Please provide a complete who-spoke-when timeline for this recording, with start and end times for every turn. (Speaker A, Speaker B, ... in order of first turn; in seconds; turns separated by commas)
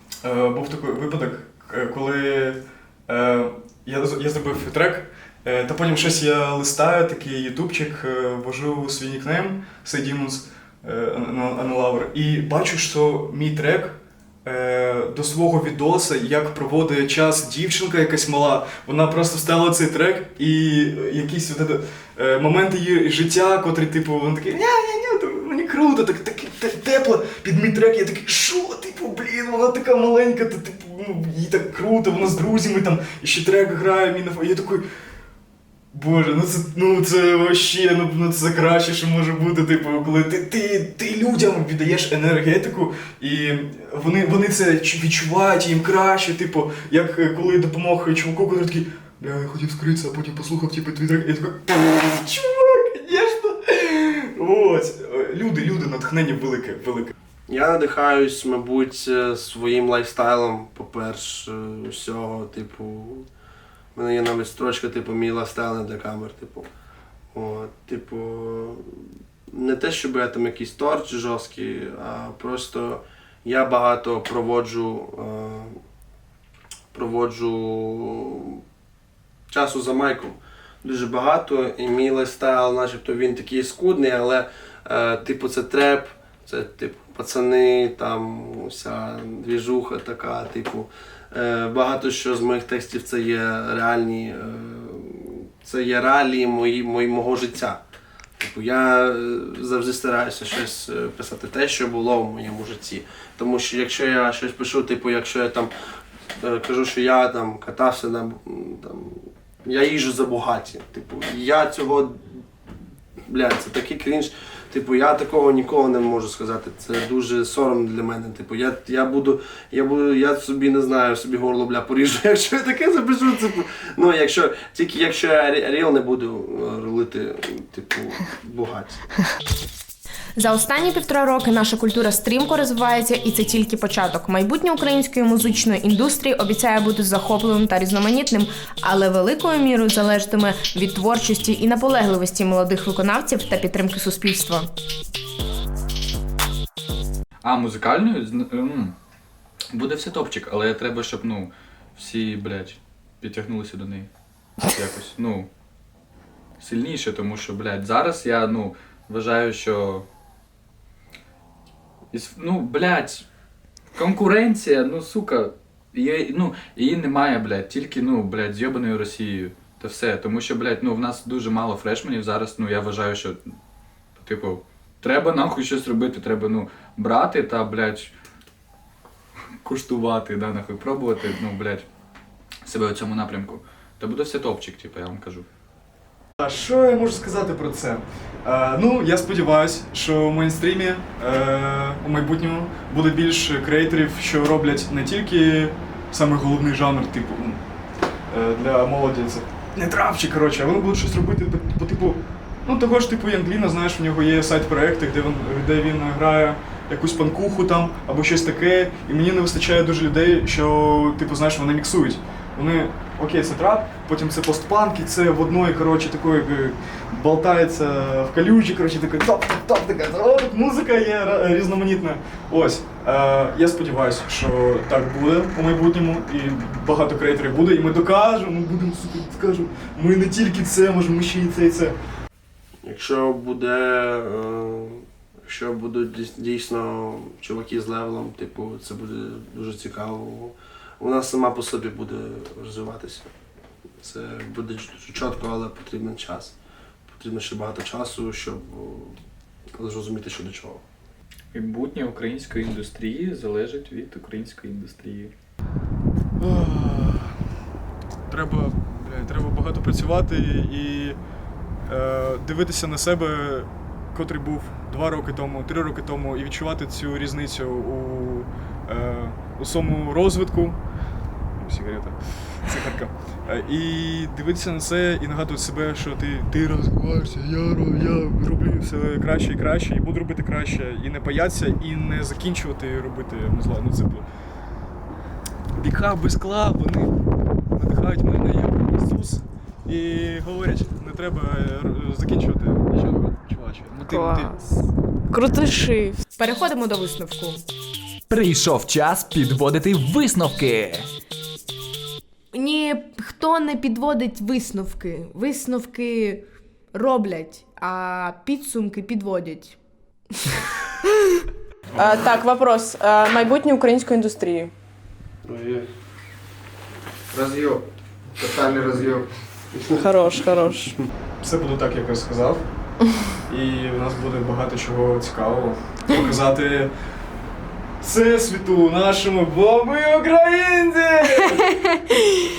Speaker A: 0.2-34.9, Speaker A: 35.9-57.1, Speaker B: 57.5-63.3, Speaker B: 64.0-66.7, Speaker B: 67.3-69.0, Speaker B: 69.5-75.8, Speaker B: 76.9-78.6, Speaker B: 79.5-97.8, Speaker B: 98.4-105.7, Speaker B: 106.4-112.4, Speaker B: 113.3-129.0, Speaker C: 130.4-144.7, Speaker D: 147.4-148.9, Speaker D: 149.7-154.1, Speaker D: 154.6-155.5, Speaker D: 156.6-160.1, Speaker D: 162.1-163.3, Speaker D: 163.9-173.4, Speaker D: 174.2-178.1, Speaker D: 179.6-181.9, Speaker D: 182.7-185.5, Speaker A: 186.4-197.6, Speaker A: 198.3-232.0, Speaker B: 232.8-243.3, Speaker B: 244.0-246.6, Speaker B: 247.1-249.2, Speaker B: 249.8-250.8, Speaker D: 251.5-255.3, Speaker A: 256.4-257.4, Speaker A: 258.3-261.2, Speaker A: 261.9-270.8, Speaker A: 271.6-284.3, Speaker A: 285.7-287.1, Speaker A: 287.7-294.9, Speaker E: 294.2-294.5, Speaker E: 295.3-296.2, Speaker C: 296.4-297.6, Speaker F: 298.3-301.1, Speaker C: 302.5-309.8, Speaker E: 312.0-314.7, Speaker B: 315.5-315.9, Speaker B: 317.3-317.8, Speaker B: 318.4-320.0, Speaker E: 320.1-320.9, Speaker A: 321.4-322.7, Speaker A: 323.5-326.9, Speaker A: 328.0-331.8